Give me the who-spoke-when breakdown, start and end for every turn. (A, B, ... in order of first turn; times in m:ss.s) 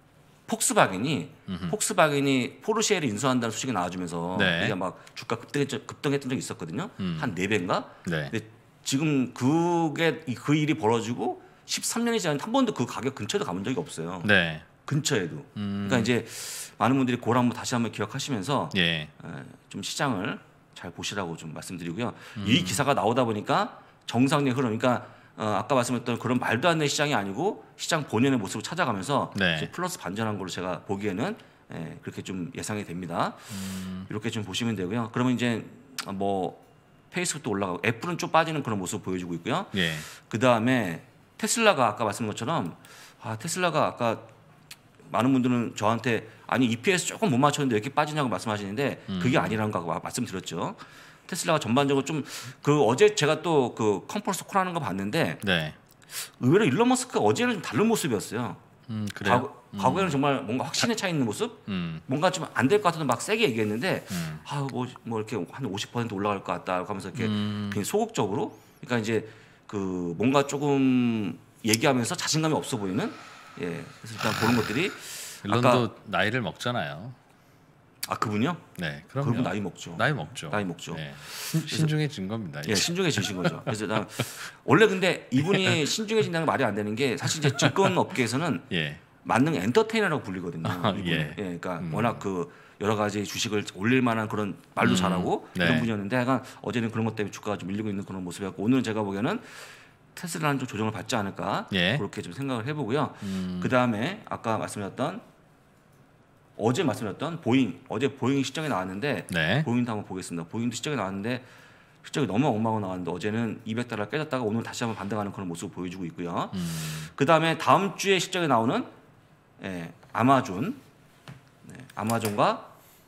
0:00.5-0:14.3 A
0:01.5-0:01.8 B
0:04.3-0:04.8 B
0:07.0-0:07.3 B
0:08.0-0:08.3 B
0:14.2-0:14.7 B
0:14.8-0:36.6 A
0:15.6-0:16.1 B
0:18.7-0:19.1 B
0:22.4-0:22.8 B
0:29.3-0:29.7 B
0:33.5-0:34.1 B
0:37.1-0:44.3 A
0:39.7-0:40.1 B
0:45.1-0:55.4 A
0:49.1-0:49.6 B
0:55.4-0:55.8 B
0:56.1-0:58.6 A
0:58.9-1:00.2 B
0:59.2-1:15.9 A
1:01.7-1:02.0 B
1:04.1-1:04.4 B
1:07.2-1:07.8 B
1:15.4-1:17.2 B
1:18.1-1:18.7 A
1:18.8-1:23.8 B
1:19.2-1:21.9 A
1:22.6-1:28.6 A
1:25.5-1:25.9 B
1:27.3-1:27.9 B
1:28.7-1:29.0 B
1:29.2-1:39.5 A
1:30.6-1:32.2 B
1:34.8-1:35.9 B
1:40.1-1:45.2 A
1:41.7-1:42.0 B
1:43.2-1:43.7 B
1:46.6-1:51.4 A
1:49.3-1:49.7 B
1:52.0-1:58.9 A
1:56.5-1:57.1 B
1:59.6-2:00.8 A
2:01.6-2:02.7 A